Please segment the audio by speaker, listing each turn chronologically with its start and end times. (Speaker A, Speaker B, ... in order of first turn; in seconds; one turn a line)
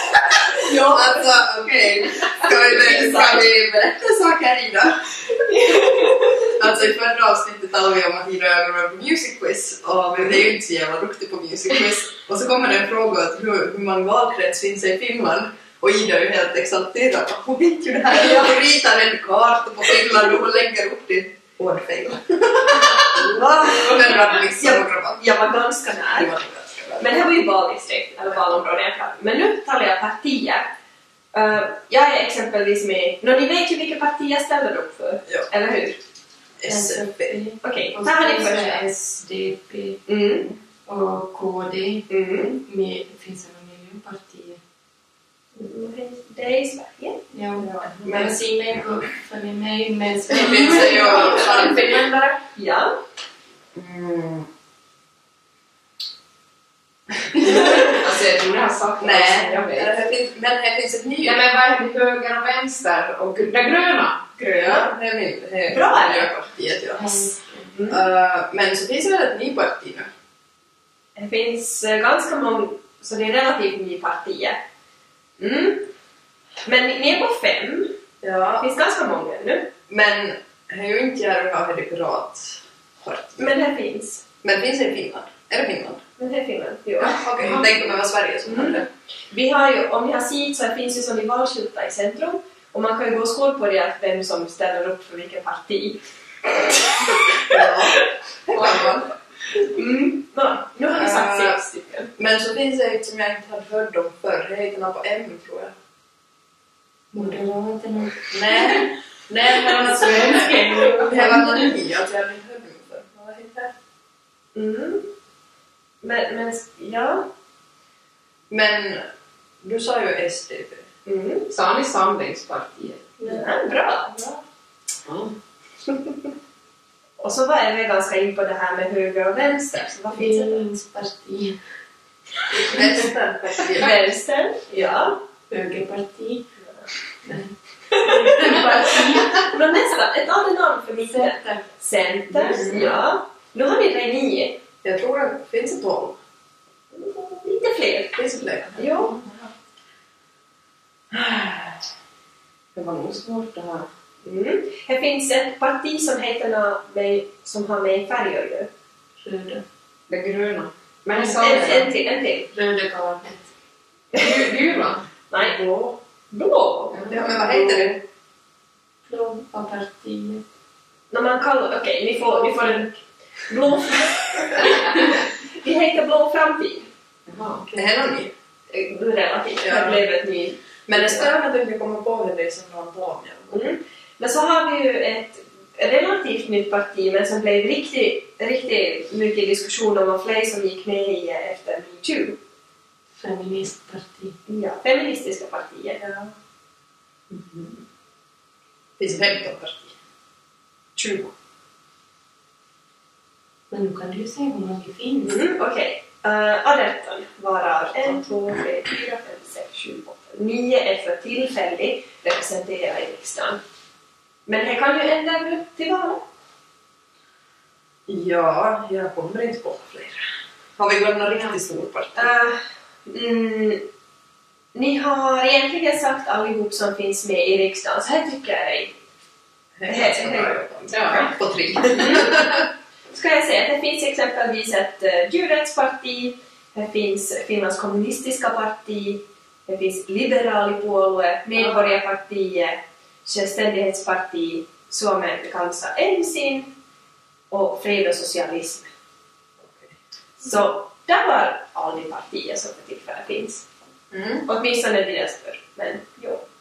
Speaker A: 0.3-1.2
Speaker B: 0.6-5.0
Speaker A: 2.4-3.0
Speaker A: 5.5-6.5
Speaker B: 6.4-25.2
Speaker A: 22.7-26.3
Speaker B: 26.1-27.3
Speaker A: 27.0-30.7
Speaker A: 31.3-36.0
Speaker B: 36.6-37.4
Speaker C: 36.6-40.0
Speaker A: 37.6-38.9
Speaker A: 40.1-40.5
Speaker C: 40.9-44.6
Speaker A: 42.1-42.6
Speaker A: 45.5-48.3
Speaker C: 47.3-52.1
Speaker B: 47.8-48.3
Speaker B: 50.3-52.4
Speaker A: 51.0-51.7
Speaker A: 52.5-53.0
Speaker B: 53.7-54.5
Speaker B: 57.4-57.9
Speaker D: 57.5-59.9
Speaker B: 59.0-61.4
Speaker D: 61.2-64.2
Speaker A: 64.4-64.9
Speaker B: 64.4-67.3
Speaker A: 65.7-66.5
Speaker C: 67.0-67.7
Speaker A: 67.7-68.0
Speaker B: 67.9-70.1
Speaker A: 71.2-74.6
Speaker A: 75.4-75.9
Speaker A: 76.6-77.9
Speaker B: 78.2-78.7
Speaker A: 78.6-79.7
Speaker B: 79.9-83.5
Speaker A: 83.4-84.2
Speaker B: 84.4-86.0
Speaker A: 86.2-87.3
Speaker B: 87.0-88.9
Speaker A: 88.5-97.8
Speaker B: 97.5-99.1
Speaker A: 99.5-102.1
Speaker B: 100.9-101.6
Speaker B: 102.2-105.7
Speaker C: 107.1-108.9
Speaker B: 108.3-113.7
Speaker C: 109.6-111.7
Speaker A: 114.5-115.1
Speaker A: 116.0-117.3
Speaker B: 118.5-119.1
Speaker B: 119.6-120.9
Speaker A: 121.1-121.5
Speaker D: 121.5-123.1
Speaker C: 123.2-123.5
Speaker A: 123.2-124.4
Speaker D: 125.1-125.3
Speaker A: 127.2-130.7
Speaker C: 130.1-131.6
Speaker B: 132.7-133.9
Speaker A: 133.7-135.2
Speaker C: 135.5-136.5
Speaker C: 137.2-139.6
Speaker A: 137.9-144.6
Speaker C: 141.2-141.6
Speaker B: 142.4-143.0
Speaker B: 144.8-146.2
Speaker A: 146.9-148.2
Speaker B: 148.2-149.5
Speaker A: 148.8-149.1
Speaker B: 151.1-151.8
Speaker D: 152.8-153.9
Speaker A: 154.2-158.7
Speaker C: 159.2-159.6
Speaker D: 160.1-161.9
Speaker A: 161.4-162.5
Speaker C: 162.5-163.4
Speaker A: 164.1-164.5
Speaker D: 164.2-165.0
Speaker A: 165.3-165.6
Speaker A: 166.3-167.1
Speaker B: 167.1-168.0
Speaker D: 167.1-167.9
Speaker C: 169.1-170.4
Speaker A: 171.1-176.9
Speaker B: 177.7-178.3
Speaker A: 178.7-181.3
Speaker B: 179.6-180.1
Speaker B: 180.9-183.7
Speaker A: 183.5-192.4
Speaker C: 193.2-194.4
Speaker A: 194.5-196.0
Speaker B: 196.0-196.3
Speaker B: 197.3-197.8
Speaker B: 199.0-199.9
Speaker B: 201.0-201.3
Speaker C: 203.7-205.4
Speaker A: 205.2-213.6
Speaker A: 214.5-216.2
Speaker B: 218.1-220.2
Speaker B: 220.8-222.3
Speaker A: 222.2-223.8
Speaker A: 224.7-228.9
Speaker B: 229.8-232.7
Speaker A: 229.9-230.6
Speaker D: 230.9-231.3
Speaker A: 231.9-232.5
Speaker A: 233.1-246.8
Speaker A: 247.5-248.9
Speaker A: 250.4-253.7
Speaker B: 254.1-254.5
Speaker A: 254.5-256.4